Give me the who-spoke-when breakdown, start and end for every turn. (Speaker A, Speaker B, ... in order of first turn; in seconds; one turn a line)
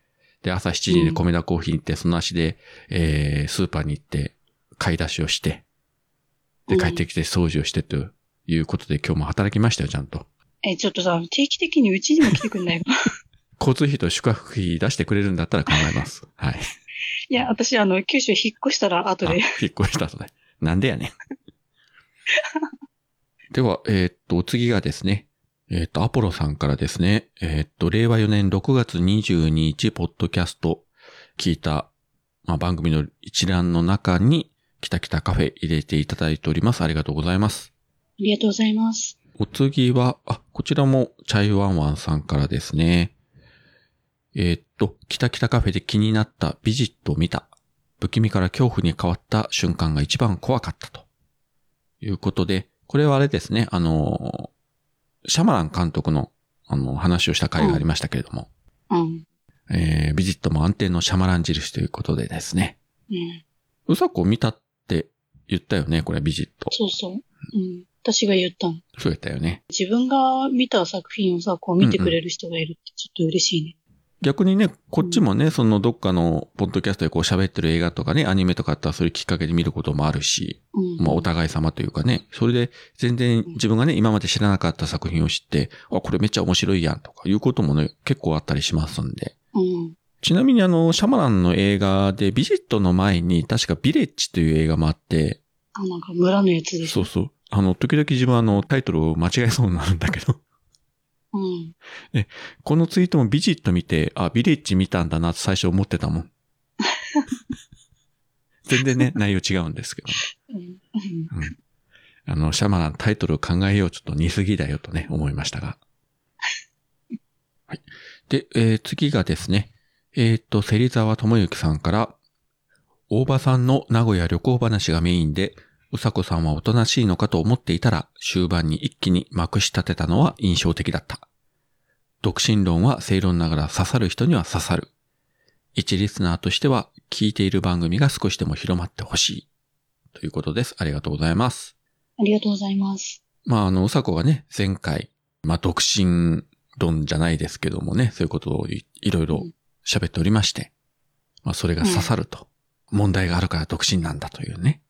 Speaker A: 0.4-5.6
Speaker B: 0.9-1.2
Speaker A: 6.7-10.3
Speaker B: 6.7-7.1
Speaker B: 10.6-12.9
Speaker A: 13.6-16.7
Speaker B: 17.3-19.5
Speaker A: 19.2-21.1
Speaker A: 23.5-31.9
Speaker A: 32.5-37.7
Speaker B: 38.2-39.2
Speaker A: 39.4-43.1
Speaker A: 44.4-47.5
Speaker A: 48.0-51.0
Speaker A: 52.0-54.5
Speaker A: 55.3-58.5
Speaker B: 57.6-57.9
Speaker B: 58.9-59.2
Speaker A: 59.7-62.8
Speaker B: 63.1-63.4
Speaker A: 63.9-66.7
Speaker B: 66.7-68.8
Speaker A: 69.0-69.6
Speaker B: 69.7-73.8
Speaker A: 71.8-72.2
Speaker A: 74.2-89.3
Speaker B: 80.7-81.3
Speaker B: 89.5-90.0
Speaker A: 90.2-95.4
Speaker B: 95.8-97.1
Speaker A: 96.8-100.4
Speaker B: 101.3-101.8
Speaker A: 102.1-106.3
Speaker A: 108.7-110.2
Speaker B: 110.5-111.3
Speaker A: 112.3-115.8
Speaker A: 117.7-122.2
Speaker A: 123.1-131.2
Speaker A: 132.2-134.9
Speaker A: 135.8-139.5
Speaker A: 140.1-141.7
Speaker B: 142.2-143.2
Speaker A: 143.4-150.7
Speaker A: 151.4-154.8
Speaker B: 151.8-152.1